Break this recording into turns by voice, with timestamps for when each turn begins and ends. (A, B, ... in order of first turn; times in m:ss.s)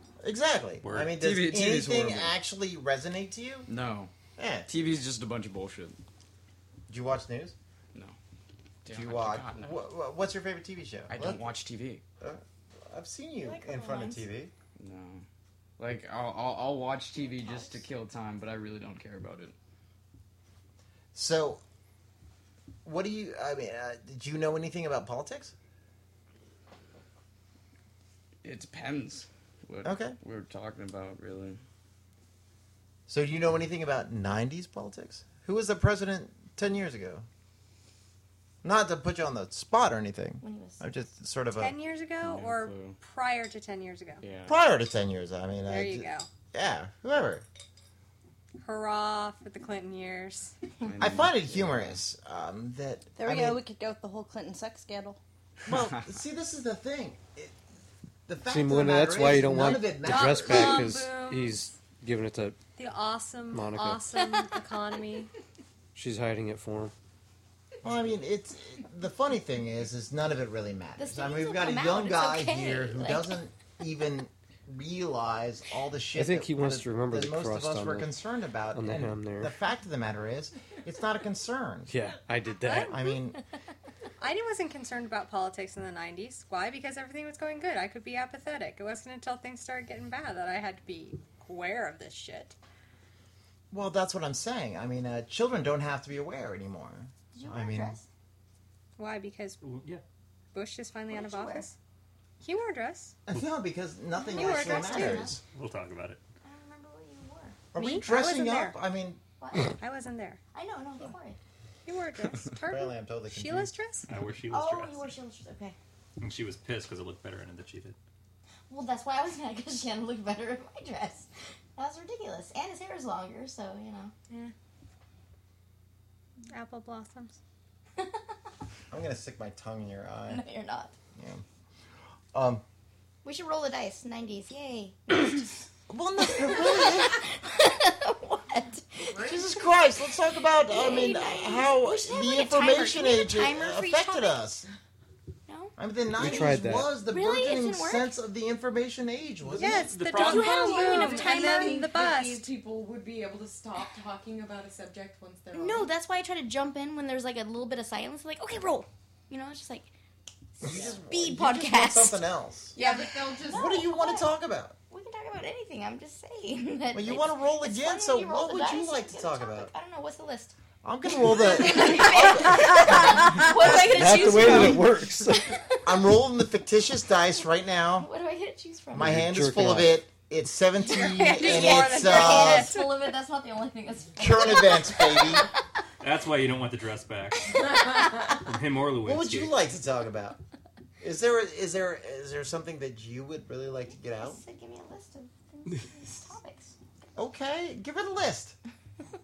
0:00.2-0:03.7 A
0:00.8-0:01.2 B
0:01.2-0:02.4 C
0:03.7-0:04.1 C
0:04.4-0:04.7 A
0:04.7-0:06.0 C
0:06.9-0:07.5 A
0:08.8-0:09.8 C
0:08.9-0:11.5 A
0:11.1-0:12.0 C
0:12.2-0:14.5 A
0:13.4-0:14.2 D
0:14.8-0:15.2 C
0:15.8-0:19.5 C
0:17.4-0:17.7 D
0:21.1-0:21.6 A
0:22.8-0:25.5 A
0:28.4-0:31.6 C
0:29.8-0:30.2 A
0:33.1-0:37.2 A
0:38.6-0:41.8 A
0:40.4-0:40.8 D
0:41.5-0:44.2 E
0:42.2-0:43.0 C
0:44.2-0:44.6 C
0:44.4-0:47.4 A
0:45.6-0:46.3 E
0:48.6-0:50.5 E
0:50.8-0:52.0 C
0:51.0-0:53.6 A
0:53.2-0:55.2 F
0:55.6-0:57.5 A
0:58.3-1:00.8 A
0:58.4-1:02.6 G
0:59.6-1:01.7 E
1:02.8-1:05.3 E
1:03.5-1:04.1 G
1:05.9-1:06.9 G
1:07.8-1:21.9 A
1:11.0-1:13.4 D
1:16.1-1:18.1 G
1:18.7-1:19.5 G
1:21.9-1:23.0 G
1:22.6-1:23.2 E
1:22.9-1:23.4 A
1:24.2-1:32.5 E
1:33.7-1:38.0 A
1:37.3-1:38.1 D
1:39.0-1:39.6 E
1:39.6-1:40.0 B
1:40.5-1:41.7 E
1:41.1-1:41.6 D
1:42.4-1:43.2 E
1:43.3-1:45.4 A
1:44.1-1:45.4 D
1:44.3-1:45.3 E
1:45.4-1:46.2 B
1:46.4-1:47.6 D
1:47.7-1:49.2 A
1:47.8-1:48.8 E
1:49.4-1:49.7 D
1:49.8-1:50.4 E
1:50.5-1:51.4 D
1:51.8-1:54.1 E
1:52.6-1:53.7 A
1:54.1-1:55.1 B
1:54.5-1:55.8 D
1:56.2-1:58.0 B
1:58.7-2:04.1 D
2:06.5-2:07.4 E
2:08.9-2:10.4 A
2:10.3-2:10.9 D
2:11.1-2:11.4 A
2:12.3-2:12.6 A
2:13.2-2:15.4 D
2:15.9-2:17.2 A
2:16.3-2:19.4 D
2:19.1-2:19.5 H
2:19.2-2:24.6 A
2:20.7-2:24.4 D
2:25.5-2:28.1 D
2:25.8-2:29.9 A
2:26.1-2:26.9 G
2:29.5-2:30.8 B
2:29.5-2:32.4 E
2:30.1-2:32.0 D
2:30.4-2:35.9 H
2:35.5-2:39.9 D
2:40.6-2:44.3 D
2:40.6-2:42.8 A
2:42.7-2:43.9 H
2:43.5-2:44.8 A
2:44.9-2:50.6 D
2:46.9-2:49.7 A
2:50.8-2:54.8 A
2:51.2-2:55.4 D
2:53.2-2:55.5 G
2:55.8-2:58.1 A
2:58.0-2:59.1 D
2:58.9-3:02.7 A
2:59.0-3:00.0 G
3:00.8-3:03.2 E
3:01.2-3:05.5 D
3:04.2-3:05.4 A
3:06.0-3:07.6 B
3:08.3-3:09.5 B
3:09.0-3:10.4 A
3:11.0-3:14.4 A
3:14.1-3:16.8 D
3:17.2-3:18.6 A